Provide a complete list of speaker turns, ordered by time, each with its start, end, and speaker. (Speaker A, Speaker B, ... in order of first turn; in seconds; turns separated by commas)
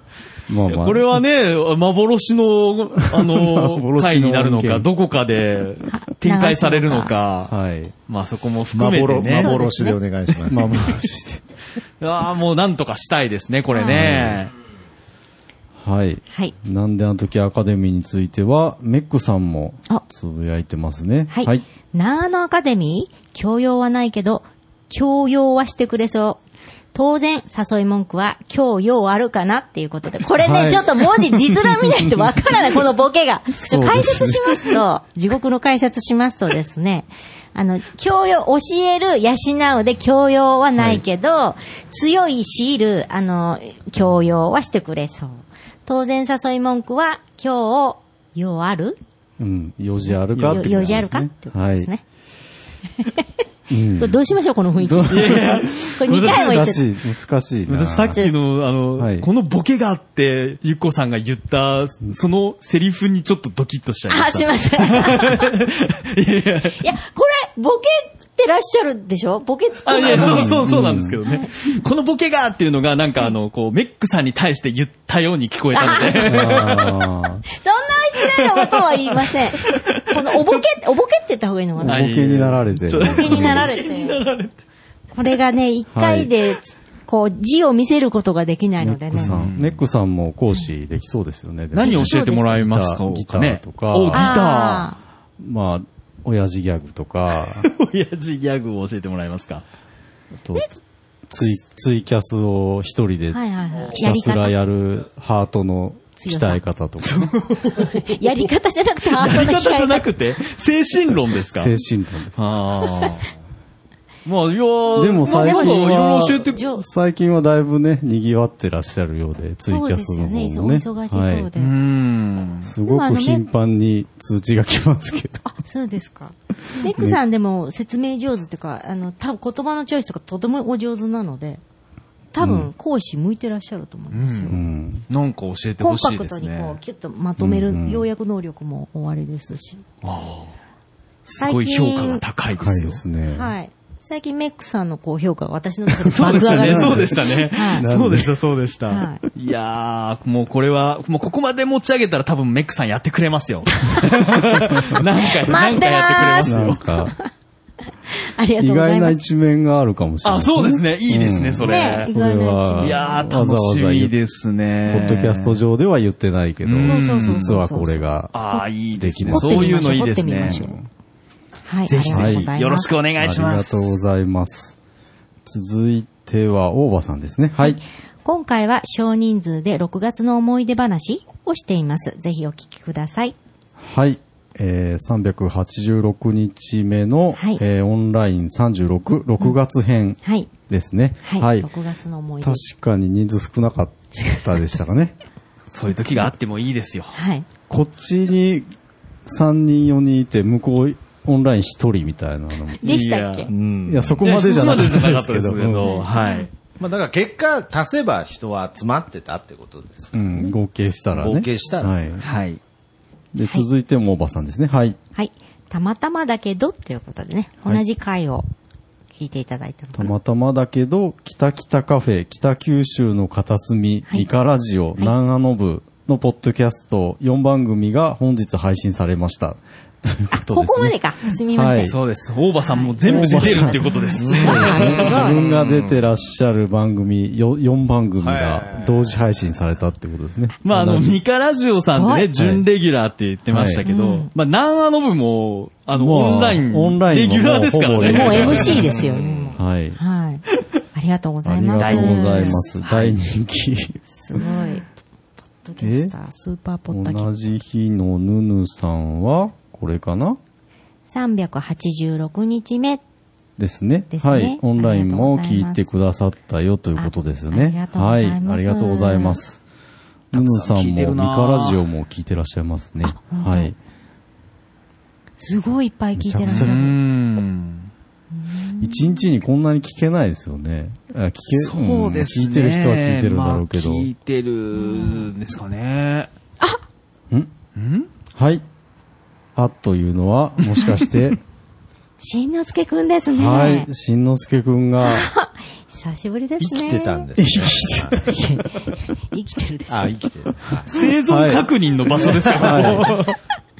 Speaker A: 0.5-1.2, Speaker B: 0.7-7.5, Speaker A: 3.1-4.9, Speaker C: 5.9-7.1, Speaker A: 7.5-7.9, Speaker B: 8.1-9.6, Speaker D: 8.7-11.0, Speaker C: 9.3-10.0, Speaker A: 10.5-11.4, Speaker B: 12.0-14.5, Speaker C: 13.7-14.0, Speaker A: 13.9-14.4, Speaker A: 15.8-21.6, Speaker C: 21.3-26.4, Speaker C: 26.9-49.0, Speaker A: 30.4-32.2, Speaker A: 33.6-34.8, Speaker A: 49.4-51.9, Speaker C: 50.1-52.0, Speaker B: 50.3-50.8, Speaker C: 53.0-53.3, Speaker A: 53.7-54.3, Speaker C: 54.0-56.8, Speaker A: 54.8-58.2, Speaker B: 55.1-56.8, Speaker B: 57.7-66.8, Speaker A: 59.0-59.3, Speaker C: 64.1-65.5, Speaker C: 66.7-71.5, Speaker B: 69.9-77.0, Speaker A: 70.1-71.2, Speaker C: 75.7-76.9, Speaker A: 76.2-77.4, Speaker C: 77.5-82.0, Speaker B: 78.6-80.7, Speaker A: 81.8-83.7, Speaker B: 81.8-84.6, Speaker C: 83.0-84.2, Speaker C: 85.1-89.3, Speaker A: 85.9-86.3, Speaker A: 88.8-94.4, Speaker B: 89.2-89.8, Speaker B: 91.7-94.9, Speaker C: 91.8-92.5, Speaker C: 94.1-95.0, Speaker A: 95.4-97.7, Speaker B: 97.4-99.6, Speaker A: 100.4-100.8, Speaker A: 101.3-107.3, Speaker C: 103.3-104.6, Speaker C: 106.2-106.6, Speaker B: 107.0-108.0, Speaker C: 107.7-110.1, Speaker B: 109.1-111.7, Speaker A: 111.5-112.4, Speaker B: 112.4-113.3, Speaker B: 114.3-116.6, Speaker A: 115.0-121.5, Speaker C: 115.2-116.8, Speaker C: 119.7-121.7, Speaker B: 121.6-122.7, Speaker A: 122.7-125.5, Speaker C: 122.9-123.4, Speaker C: 125.5-131.6, Speaker A: 126.7-127.2, Speaker C: 132.3-134.6, Speaker A: 132.4-132.7, Speaker B: 134.1-134.6, Speaker A: 134.5-135.1, Speaker B: 135.1-136.8, Speaker C: 135.8-139.8, Speaker A: 137.4-138.1, Speaker B: 140.0-140.5, Speaker B: 141.3-143.0, Speaker C: 141.4-142.2, Speaker A: 142.6-143.5, Speaker C: 143.3-147.9, Speaker A: 146.1-148.3, Speaker B: 146.1-156.8, Speaker C: 148.9-149.2, Speaker C: 153.7-157.3, Speaker A: 156.5-157.2, Speaker C: 158.1-159.2, Speaker A: 158.6-164.1, Speaker B: 160.2-162.1, Speaker C: 161.6-163.2, Speaker B: 162.8-165.6, Speaker A: 164.9-168.4, Speaker B: 166.6-167.6, Speaker C: 166.8-168.6, Speaker B: 168.3-170.6, Speaker A: 168.9-170.8, Speaker C: 169.3-170.8, Speaker C: 171.7-172.9, Speaker B: 171.9-174.0, Speaker A: 172.1-172.5, Speaker A: 173.2-174.8, Speaker A: 175.4-177.8, Speaker C: 177.6-183.3, Speaker A: 183.8-191.7, Speaker C: 187.3-187.6, Speaker C: 190.2-190.5, Speaker C: 191.2-192.6, Speaker A: 192.4-195.2, Speaker B: 195.7-197.2, Speaker C: 197.1-197.5, Speaker A: 197.7-198.7, Speaker A: 199.3-202.8, Speaker C: 202.8-203.5, Speaker B: 202.8-203.5, Speaker D: 203.5-204.2, Speaker A: 203.9-206.0, Speaker B: 204.2-206.5, Speaker C: 205.8-206.5, Speaker D: 206.8-210.5, Speaker A: 210.1-212.3, Speaker D: 211.1-212.0, Speaker B: 212.2-212.6, Speaker A: 213.3-215.0, Speaker C: 215.2-218.5, Speaker C: 219.1-220.1, Speaker A: 220.0-231.9, Speaker C: 230.3-232.0, Speaker B: 231.9-235.4, Speaker C: 232.6-235.4, Speaker A: 233.1-241.2, Speaker D: 234.9-236.0, Speaker D: 238.2-239.2, Speaker B: 240.7-249.0, Speaker C: 241.9-242.3, Speaker A: 242.4-242.6, Speaker A: 243.5-243.8, Speaker C: 243.8-244.3, Speaker A: 245.9-248.9, Speaker C: 248.0-250.4, Speaker D: 248.9-249.6, Speaker A: 249.6-250.0, Speaker C: 250.9-253.2, Speaker A: 251.4-254.5, Speaker B: 251.8-252.6, Speaker C: 254.1-254.8, Speaker C: 255.6-257.3, Speaker A: 255.8-256.1, Speaker A: 256.9-260.4, Speaker C: 261.1-263.0, Speaker A: 263.6-269.6, Speaker C: 264.1-265.9, Speaker C: 267.0-269.4, Speaker B: 270.3-271.8, Speaker A: 270.3-273.8, Speaker C: 273.0-273.7, Speaker C: 275.4-277.0, Speaker A: 276.2-276.8, Speaker B: 276.5-277.9, Speaker C: 278.4-279.2, Speaker A: 278.8-284.1, Speaker B: 281.5-286.3, Speaker C: 284.7-285.3, Speaker B: 287.8-288.1, Speaker A: 288.4-288.6, Speaker A: 289.6-291.4, Speaker C: 292.2-293.9, Speaker A: 293.4-295.3, Speaker C: 295.0-297.3, Speaker D: 296.6-298.2, Speaker A: 297.4-298.4, Speaker C: 298.2-300.1, Speaker D: 299.9-301.1, Speaker B: 300.9-303.4, Speaker A: 301.2-301.7, Speaker A: 302.3-303.2